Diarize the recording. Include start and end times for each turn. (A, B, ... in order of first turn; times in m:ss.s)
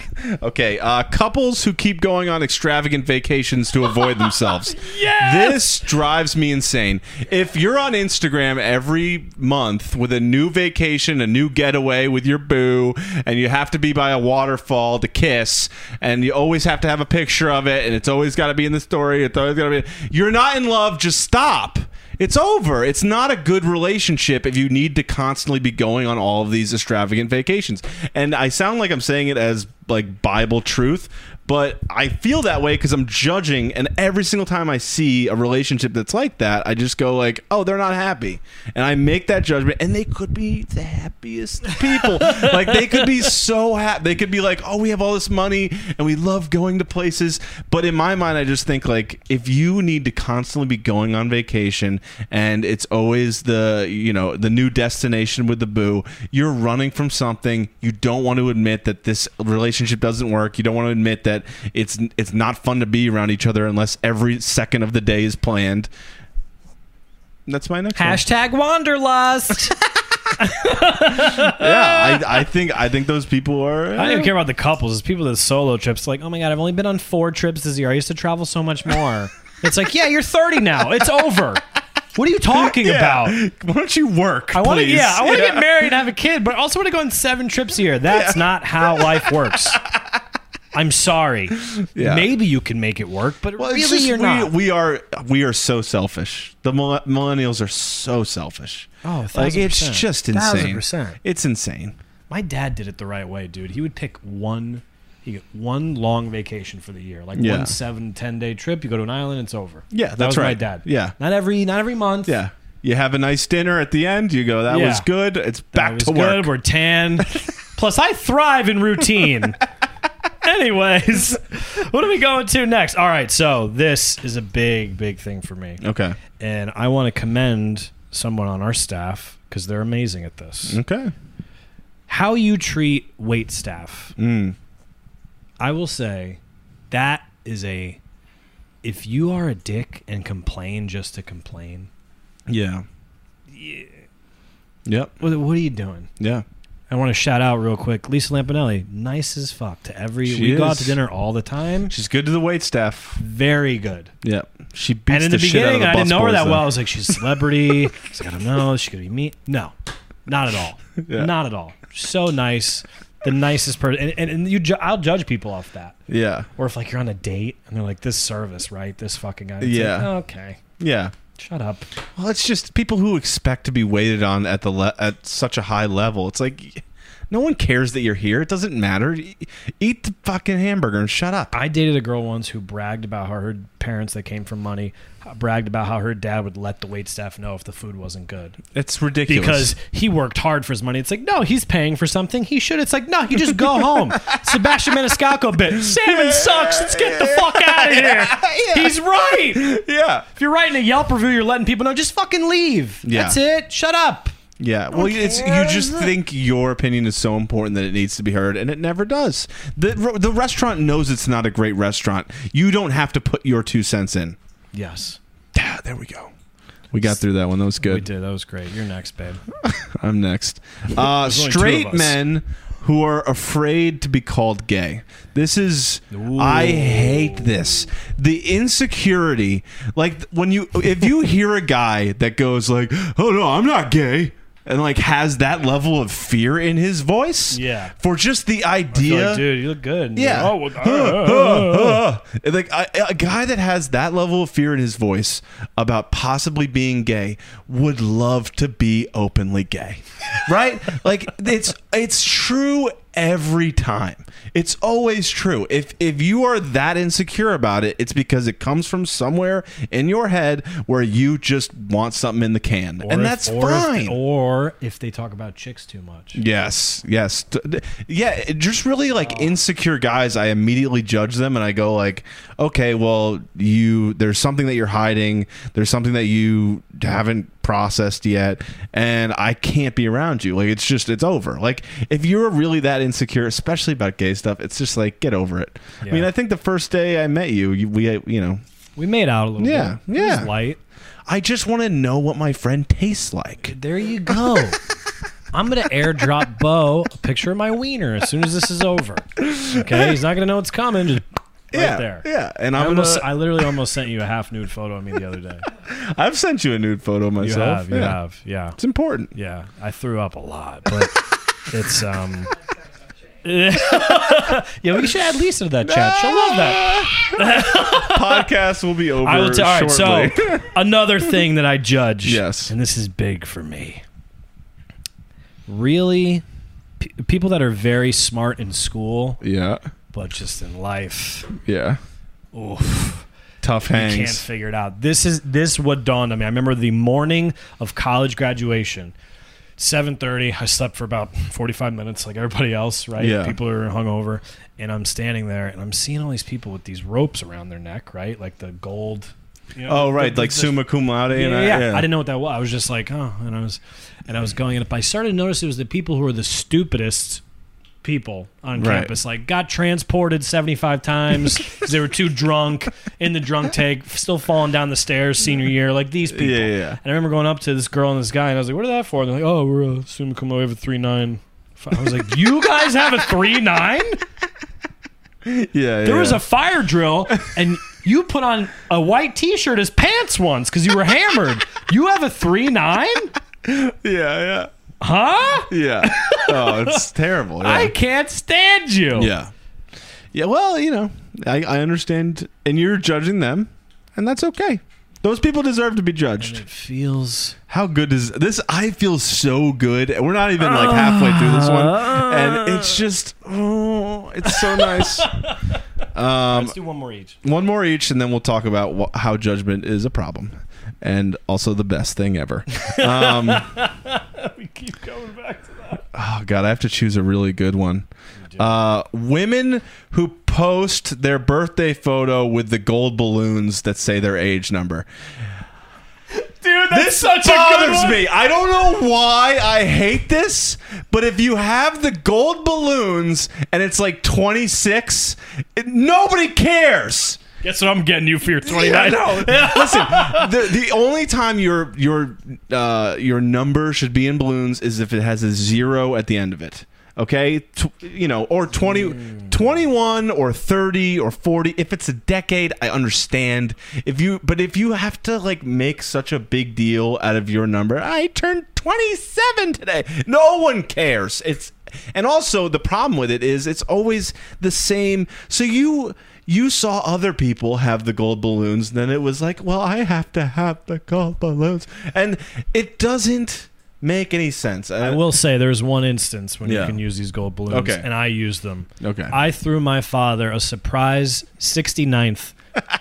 0:00.1-1:05.9 A
0:04.4-0:05.7 B
0:42.2-0:42.5 B
1:07.5-1:08.2 A
1:08.0-1:09.8 B
1:10.4-1:12.4 B
1:11.2-1:14.3 A
1:14.0-1:21.6 B
1:22.2-1:23.4 B
1:22.5-1:25.7 A
1:24.5-1:29.8 B
1:28.1-1:30.1 A
1:30.7-1:34.5 B
1:31.7-1:32.3 A
1:33.6-1:42.0 A
1:39.0-1:41.2 B
1:42.3-1:52.4 B
1:47.4-1:47.8 A
1:49.9-1:51.2 A
1:52.3-1:56.5 A
1:54.7-1:55.1 B
1:55.7-1:59.6 B
2:00.4-2:05.8 B
2:05.8-2:06.2 A
2:06.4-2:10.8 B
2:10.7-2:11.1 A
2:12.1-2:14.2 B
2:14.2-2:14.6 A
2:15.6-2:18.0 B
2:18.8-2:21.9 B
2:22.5-2:22.8 A
2:23.5-2:24.0 B
2:24.9-2:25.1 A
2:25.2-2:26.1 B
2:26.2-2:26.4 A
2:26.9-2:32.0 B
2:30.2-2:31.0 A
2:31.9-2:33.2 A
2:33.2-2:34.1 B
2:34.2-2:37.2 A
2:35.1-2:39.7 B
2:40.3-2:46.0 B
2:41.0-2:41.3 A
2:46.1-2:46.5 A
2:46.6-2:50.6 B
2:49.6-2:50.1 A
2:50.8-2:51.1 A
2:51.4-2:51.9 B
2:52.2-3:01.5 A
3:01.5-3:08.6 B
3:08.7-3:09.7 A
3:09.3-3:19.8 B
3:13.5-3:14.8 A
3:15.7-3:20.3 A
3:20.4-3:24.3 B
3:23.0-3:23.4 A
3:24.6-3:34.4 A
3:24.9-3:25.8 B
3:34.7-3:35.2 B
3:35.5-3:36.3 A
3:36.9-3:38.1 A
3:37.8-3:39.4 B
3:39.6-3:59.5 A
3:41.0-3:42.2 B
3:46.1-3:47.9 B
3:57.5-3:57.9 B
3:58.9-4:02.0 B
4:00.2-4:24.2 A
4:23.0-4:26.4 B
4:26.4-4:48.6 A
4:29.2-4:29.6 B
4:46.0-4:46.3 B
4:49.0-4:50.8 B
4:49.6-4:50.5 A
4:51.3-4:53.8 A
4:53.7-4:54.8 B
4:55.5-5:05.7 B
4:59.4-5:00.2 A
5:01.7-5:03.6 A
5:05.9-5:08.2 A
5:07.4-5:08.8 B
5:08.8-5:09.3 A
5:09.3-5:12.5 B
5:13.4-5:18.5 B
5:15.8-5:20.7 A
5:19.2-5:24.0 B
5:22.2-5:22.7 A
5:25.7-5:26.4 B
5:27.0-5:29.4 B
5:29.4-5:29.8 A
5:30.1-5:31.5 B
5:31.6-5:32.0 A
5:32.5-5:33.3 B
5:33.6-5:34.5 A
5:33.9-5:39.2 B
5:39.8-5:50.8 B
5:43.2-5:43.6 A
5:49.9-5:52.1 A
5:51.3-5:57.4 B
5:58.0-6:14.2 B
5:58.8-5:59.1 A
6:06.3-6:07.0 A
6:15.4-6:16.4 A
6:16.0-6:23.4 B
6:23.6-6:24.7 A
6:25.0-6:27.1 B
6:25.7-6:27.9 A
6:27.6-6:29.3 B
6:29.2-6:29.5 A
6:30.3-6:36.6 A
6:36.4-6:37.6 B
6:37.7-6:45.5 A
6:40.6-6:43.0 B
6:44.4-6:45.8 B
6:46.1-6:46.8 A
6:46.5-6:47.4 B
6:47.4-6:53.7 A
6:52.7-6:56.1 B
6:56.1-7:05.1 A
7:06.3-7:08.3 B
7:06.9-7:17.4 A
7:17.6-7:20.7 B
7:18.6-7:55.2 A
7:55.0-8:02.6 B
7:56.6-7:57.0 A
7:57.7-7:58.1 A
7:59.0-7:59.4 A